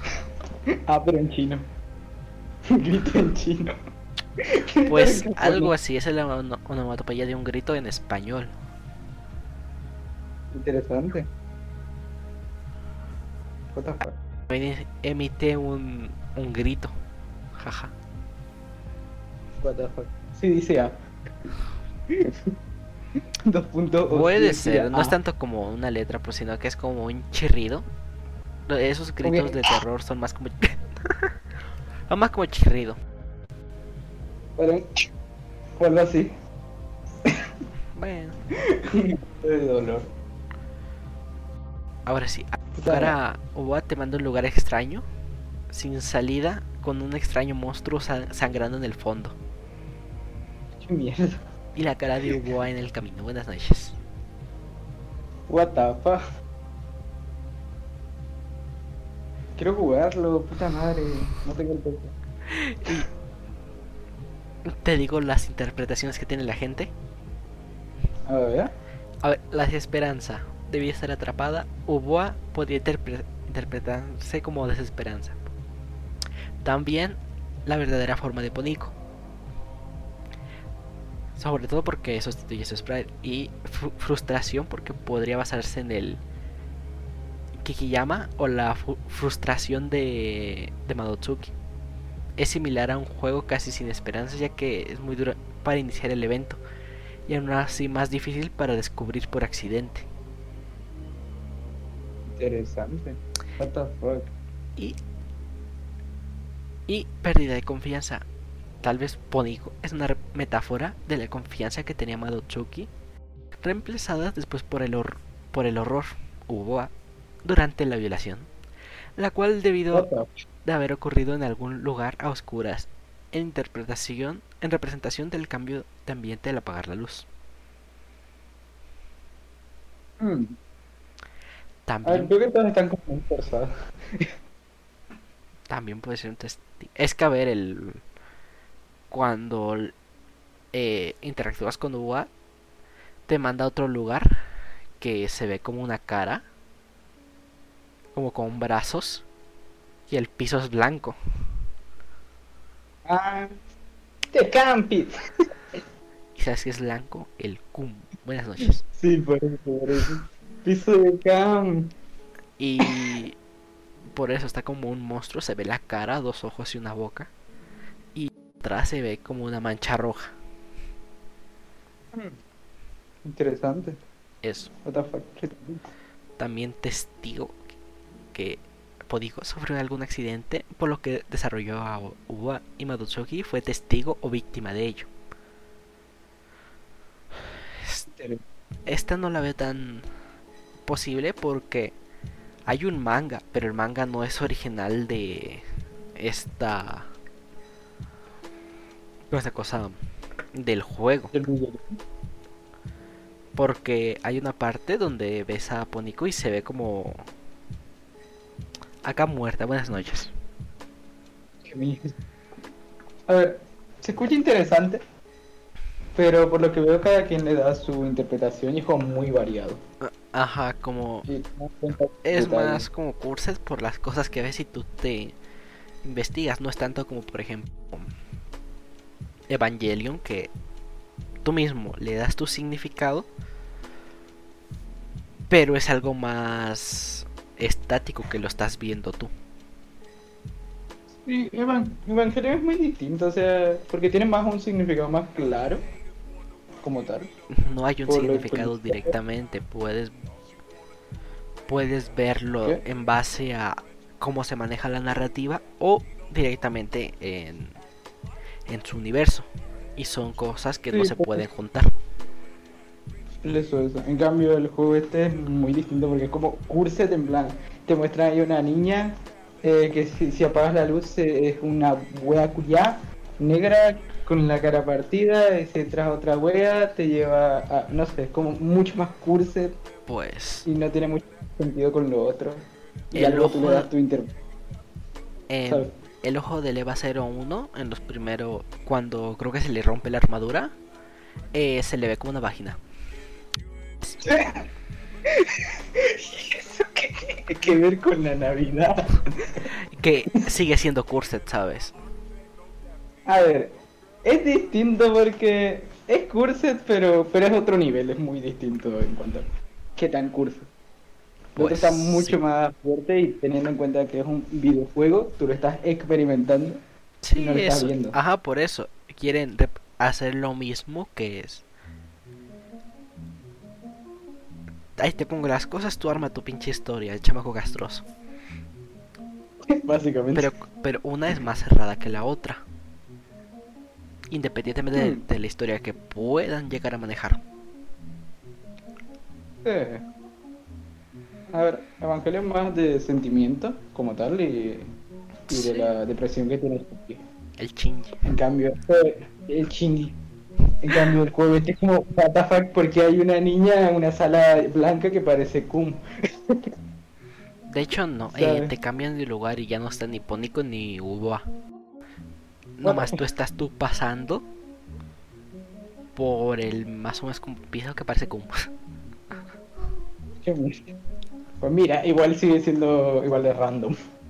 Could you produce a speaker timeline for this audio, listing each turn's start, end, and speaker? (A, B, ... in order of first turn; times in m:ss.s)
0:00.9-0:01.6 A
0:02.7-0:03.7 A
0:04.4-0:05.7 A
0:04.9-0:08.5 B
0:10.5-0:11.3 A
0:13.7-0:14.2 A
0:14.5-0:16.9 B
0:17.6-0:17.9 B
0:19.6-0:21.0 A
0:23.5-0:25.2 A
0:24.1-0:27.8 B
0:28.7-0:31.3 B
0:29.2-0:29.7 A
0:32.1-0:33.0 B
0:34.6-0:35.0 A
0:35.8-0:36.3 A
0:37.9-0:38.4 B
0:38.7-0:40.1 A
0:42.1-0:45.0 B
0:42.8-0:43.2 A
0:45.7-0:49.4 B
0:50.8-0:51.4 A
0:51.8-0:54.0 B
0:55.5-0:56.2 A
0:59.6-1:02.1 A
1:02.5-1:03.1 B
1:04.6-1:06.9 B
1:08.3-1:08.7 A
1:09.2-1:15.5 B
1:16.6-1:18.9 B
1:21.4-1:26.2 B
1:27.6-1:31.5 B
1:32.4-1:36.6 B
1:37.3-1:40.1 B
1:42.4-1:44.3 A
1:46.9-1:48.2 B
1:48.8-1:52.9 B
1:53.6-1:56.9 B
1:57.4-1:58.5 B
1:59.2-2:00.1 B
1:59.9-2:00.3 A
2:00.6-2:07.3 B
2:10.2-2:10.6 A
2:11.8-2:12.4 B
2:12.1-2:14.3 A
2:15.7-2:18.0 B
2:19.1-2:19.9 B
2:20.7-2:22.3 B
2:23.3-2:24.4 B
2:25.0-2:26.4 B
2:28.1-2:29.2 B
2:30.1-2:31.2 B
2:33.1-2:33.5 A
2:34.3-2:35.1 A
2:36.4-2:38.8 B
2:38.6-2:41.9 A
2:42.6-2:43.4 B
2:44.1-2:47.3 B
2:48.1-2:50.4 B
2:53.2-2:54.0 A
2:54.4-2:54.7 B
2:54.8-2:55.8 A
2:56.4-2:57.6 B
2:58.3-3:05.1 B
3:07.8-3:08.1 B
3:08.1-3:08.4 A
3:08.8-3:10.1 B
3:10.8-3:11.9 B
3:12.7-3:15.6 B
3:16.2-3:17.1 B
3:19.3-3:19.9 B
3:20.5-3:21.3 B
3:21.3-3:22.0 A
3:23.6-3:27.2 B
3:29.0-3:30.3 B
3:31.6-3:32.1 A
3:33.3-3:35.0 A
3:36.2-3:39.8 A
3:40.0-3:41.2 B
3:41.2-3:42.9 A
3:42.2-3:45.4 B
3:46.0-3:48.1 B
3:49.5-3:50.5 B
3:51.4-3:53.3 B
3:55.5-3:59.3 B
4:01.2-4:05.8 A
4:06.8-4:07.3 A
4:07.5-4:10.2 B
4:08.1-4:09.1 A
4:11.7-4:17.8 B
4:18.7-4:21.9 B
4:20.9-4:21.4 A
4:23.4-4:39.8 A
4:40.1-4:40.7 B
4:40.6-4:44.4 A
4:43.1-4:43.9 B
4:45.5-4:50.8 B
4:51.5-4:52.8 B
4:54.2-4:54.6 A
4:55.3-4:59.7 A
4:59.9-5:01.9 B
5:03.2-5:10.7 A
5:11.5-5:16.8 A
5:11.6-5:12.4 B
5:17.2-5:21.6 B
5:17.4-5:18.2 A
5:25.0-5:28.1 B
5:29.8-5:30.5 A
5:30.3-5:32.6 B
5:34.3-5:37.4 B
5:35.0-5:35.2 A
5:39.6-5:40.0 A
5:41.5-5:44.9 A
5:45.5-5:45.9 B
5:45.5-5:47.2 A
5:47.6-5:48.2 B
5:48.2-5:50.2 A
5:50.8-5:56.6 A
5:57.7-6:01.5 B
5:58.3-5:58.7 A
6:02.8-6:04.5 B
6:02.8-6:03.2 A
6:06.2-6:08.5 B
6:10.4-6:10.9 A
6:11.6-6:14.0 A